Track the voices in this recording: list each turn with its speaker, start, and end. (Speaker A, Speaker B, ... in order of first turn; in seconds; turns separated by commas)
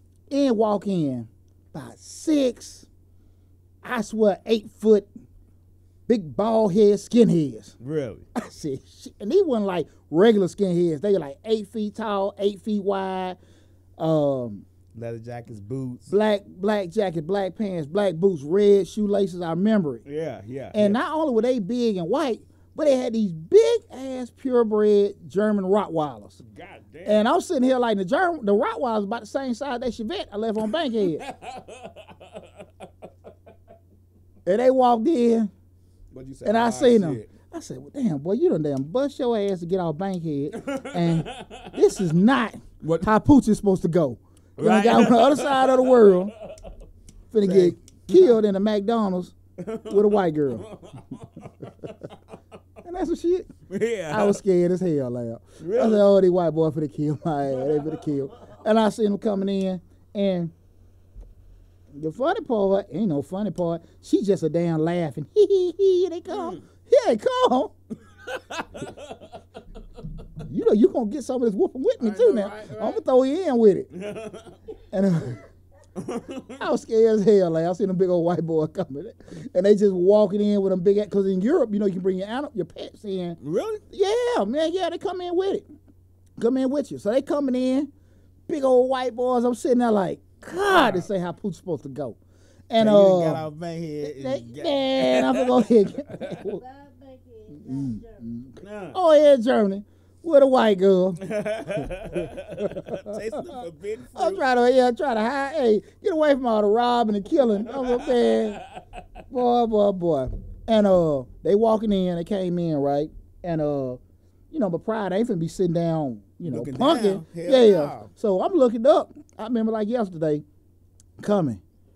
Speaker A: 0.3-2.9, Speaker A: 3.8-5.1, Speaker A: 6.1-7.8, Speaker B: 7.8-8.3, Speaker A: 8.3-13.4, Speaker A: 14.0-14.7, Speaker B: 14.9-16.1, Speaker A: 16.1-20.0, Speaker B: 20.1-21.0, Speaker A: 20.7-26.4, Speaker B: 26.4-27.3, Speaker A: 27.1-31.2, Speaker B: 30.8-32.9, Speaker A: 34.5-35.5, Speaker B: 36.1-37.3, Speaker A: 36.4-46.3, Speaker B: 40.5-42.0, Speaker B: 42.8-43.1, Speaker B: 44.6-46.7, Speaker A: 47.3-50.7, Speaker B: 47.4-48.4, Speaker B: 49.6-52.2, Speaker A: 52.8-53.5, Speaker B: 53.7-54.4, Speaker A: 54.1-60.5, Speaker B: 55.6-56.1, Speaker B: 57.6-58.0, Speaker A: 61.9-67.8, Speaker B: 66.3-66.6, Speaker B: 68.2-69.3, Speaker A: 70.4-73.9, Speaker B: 72.0-73.0, Speaker B: 73.9-74.6, Speaker A: 74.9-75.4, Speaker B: 76.0-76.7, Speaker A: 76.6-83.4, Speaker B: 83.4-83.8, Speaker A: 83.9-85.7, Speaker A: 86.4-87.9, Speaker A: 88.5-93.4, Speaker B: 90.7-91.1, Speaker B: 92.8-96.3, Speaker A: 94.0-96.6, Speaker C: 96.2-98.3, Speaker A: 97.6-101.2, Speaker B: 98.6-99.0, Speaker B: 101.2-104.4, Speaker A: 102.3-103.6, Speaker A: 104.1-108.6, Speaker B: 107.6-109.0, Speaker A: 109.3-114.0, Speaker A: 114.5-120.4, Speaker B: 116.5-118.1, Speaker A: 121.2-121.6